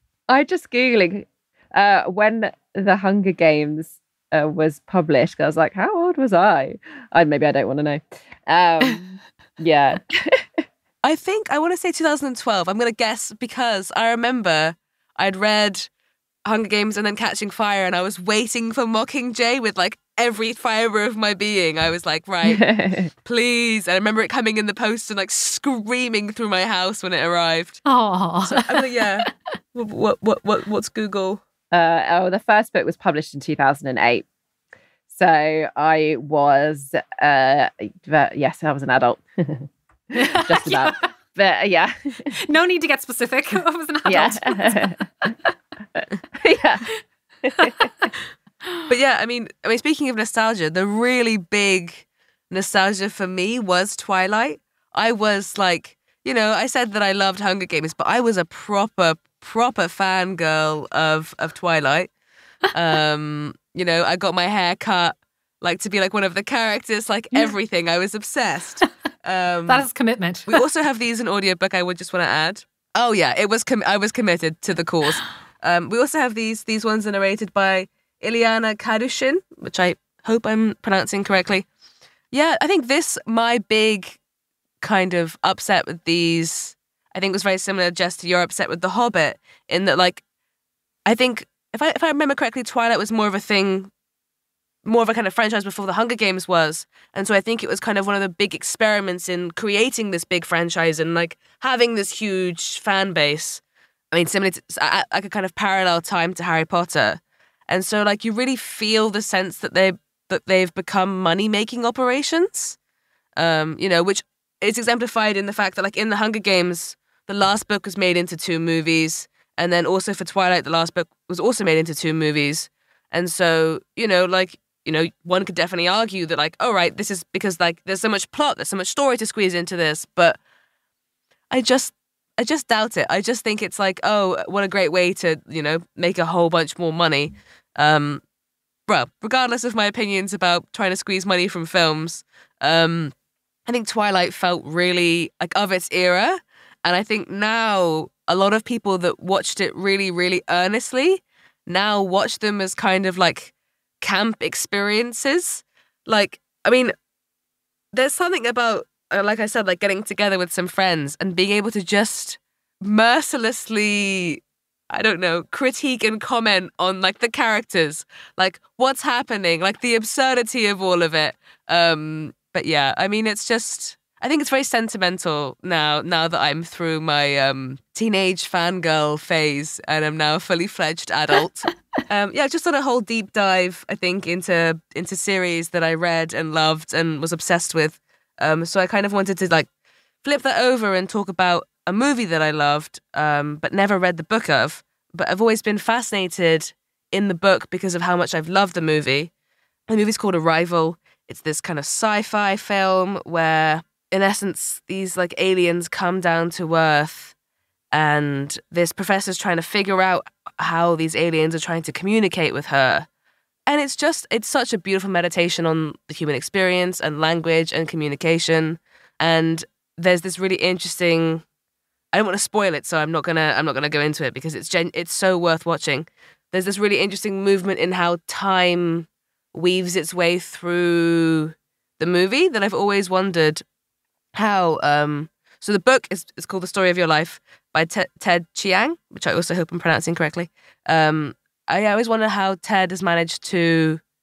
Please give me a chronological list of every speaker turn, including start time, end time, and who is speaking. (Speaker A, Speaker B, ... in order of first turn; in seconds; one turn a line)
Speaker A: 0.3-10.6
Speaker B: 11.0-15.9
Speaker B: 16.5-27.8
Speaker A: 22.4-23.1
Speaker C: 27.9-29.3
Speaker B: 28.5-31.4
Speaker A: 31.7-34.3
Speaker A: 35.1-42.4
Speaker C: 40.1-41.1
Speaker C: 42.3-45.0
Speaker A: 44.1-45.3
Speaker A: 45.9-46.9
Speaker A: 47.5-47.9
Speaker C: 47.6-48.1
Speaker B: 48.9-62.1
Speaker B: 62.7-69.9
Speaker C: 69.7-70.6
Speaker B: 70.5-81.7
Speaker B: 82.3-84.2
Speaker B: 84.8-90.2
Speaker B: 91.1-93.9
Speaker B: 94.8-112.8
Speaker B: 113.4-130.4
Speaker B: 131.5-138.2
Speaker B: 138.9-143.1
Speaker B: 143.7-156.9
Speaker B: 157.9-189.7
Speaker B: 190.2-199.3
Speaker B: 199.9-207.3
Speaker B: 207.9-213.1
Speaker B: 213.7-221.4
Speaker B: 222.1-233.6
Speaker B: 234.3-244.0